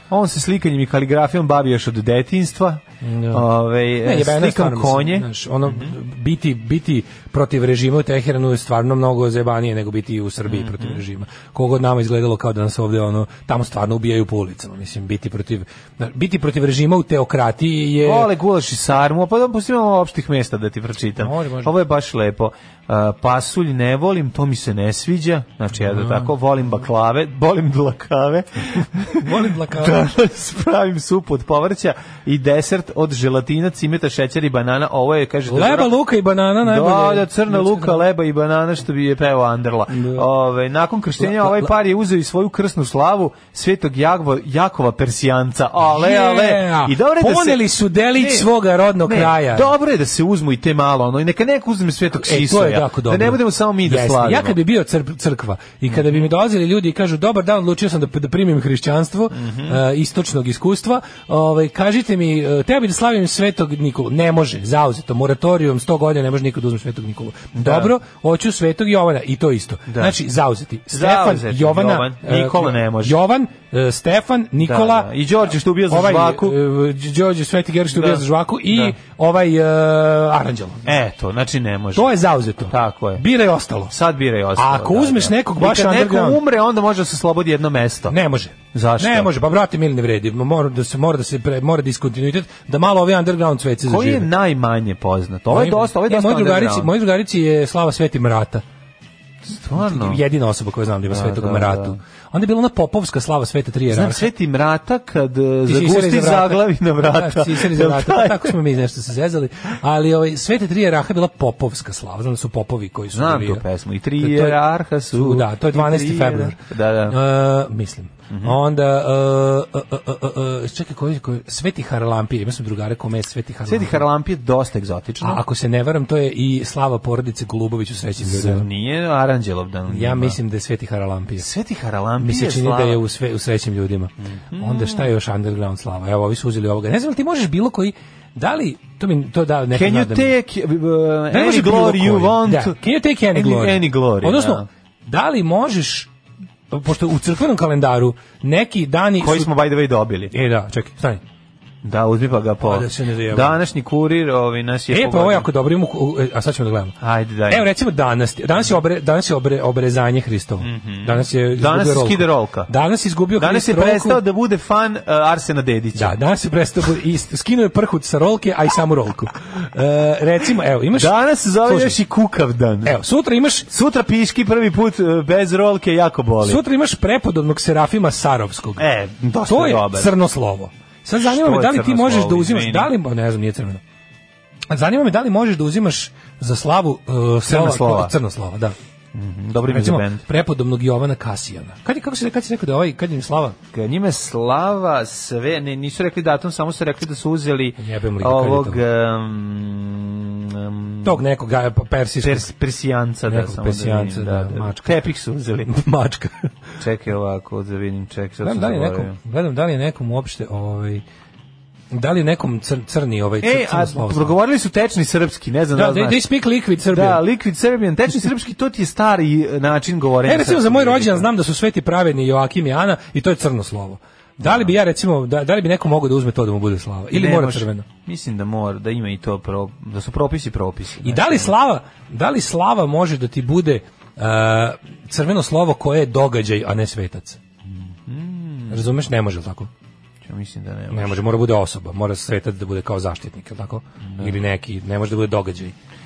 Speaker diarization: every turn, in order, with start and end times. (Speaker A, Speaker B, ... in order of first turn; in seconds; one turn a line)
Speaker A: 0.1-5.9
Speaker B: 3.0-3.5
Speaker B: 4.0-18.3
Speaker A: 10.5-11.0
Speaker A: 18.0-36.0
Speaker B: 21.2-21.7
Speaker B: 25.8-26.3
Speaker B: 29.1-30.0
Speaker B: 35.5-38.0
Speaker A: 36.6-48.5
Speaker B: 39.9-40.3
Speaker B: 41.2-41.7
Speaker B: 45.9-49.7
Speaker A: 49.0-54.6
Speaker B: 52.1-75.1
Speaker A: 55.9-56.3
Speaker A: 59.3-59.8
Speaker A: 67.5-67.9
Speaker A: 69.9-70.2
Speaker A: 70.9-73.2
Speaker A: 74.6-76.6
Speaker B: 75.9-80.9
Speaker A: 77.9-79.0
Speaker A: 80.8-82.2
Speaker B: 82.0-83.9
Speaker A: 82.7-83.2
Speaker A: 83.9-88.2
Speaker B: 84.5-86.4
Speaker B: 88.1-94.3
Speaker A: 88.7-89.3
Speaker A: 93.8-96.9
Speaker B: 95.5-98.6
Speaker A: 99.5-100.2
Speaker B: 99.8-104.3
Speaker A: 101.1-102.0
Speaker A: 103.9-108.6
Speaker B: 105.7-113.6
Speaker A: 113.1-117.2
Speaker B: 114.2-114.6
Speaker B: 115.1-124.1
Speaker A: 118.3-118.6
Speaker A: 123.7-125.4
Speaker B: 125.2-128.7
Speaker A: 128.2-130.4
Speaker B: 129.9-131.5
Speaker A: 131.4-133.0
Speaker B: 132.2-140.3
Speaker A: 134.2-135.1
Speaker A: 139.7-142.8
Speaker B: 141.3-146.1
Speaker A: 143.3-144.7
Speaker B: 146.7-149.5
Speaker A: 149.2-150.3
Speaker B: 150.3-151.2
Speaker A: 151.8-155.5
Speaker B: 152.6-153.6
Speaker B: 154.9-157.0
Speaker A: 157.0-157.7
Speaker B: 157.5-164.2
Speaker A: 160.6-162.7
Speaker A: 163.4-166.2
Speaker B: 165.9-172.0
Speaker A: 170.9-173.0
Speaker B: 172.8-173.7
Speaker A: 173.7-176.6
Speaker B: 176.4-178.8
Speaker A: 178.8-180.1
Speaker B: 179.5-183.8
Speaker A: 181.2-182.9
Speaker B: 184.7-188.8
Speaker A: 187.4-188.2
Speaker A: 189.1-190.2
Speaker B: 189.7-193.6
Speaker A: 193.7-201.2
Speaker B: 197.8-198.8
Speaker B: 201.0-202.5
Speaker A: 202.2-205.7
Speaker B: 203.3-205.0
Speaker B: 205.7-206.5
Speaker A: 206.8-209.2
Speaker B: 208.4-211.0
Speaker B: 211.9-214.4
Speaker A: 213.4-216.2
Speaker B: 215.7-217.2
Speaker A: 216.9-221.3
Speaker B: 220.2-227.8
Speaker A: 224.4-224.7
Speaker A: 227.1-231.5
Speaker B: 231.0-237.4
Speaker A: 237.7-238.8
Speaker B: 238.7-239.7
Speaker A: 240.2-241.2
Speaker B: 240.9-245.8
Speaker A: 244.0-244.4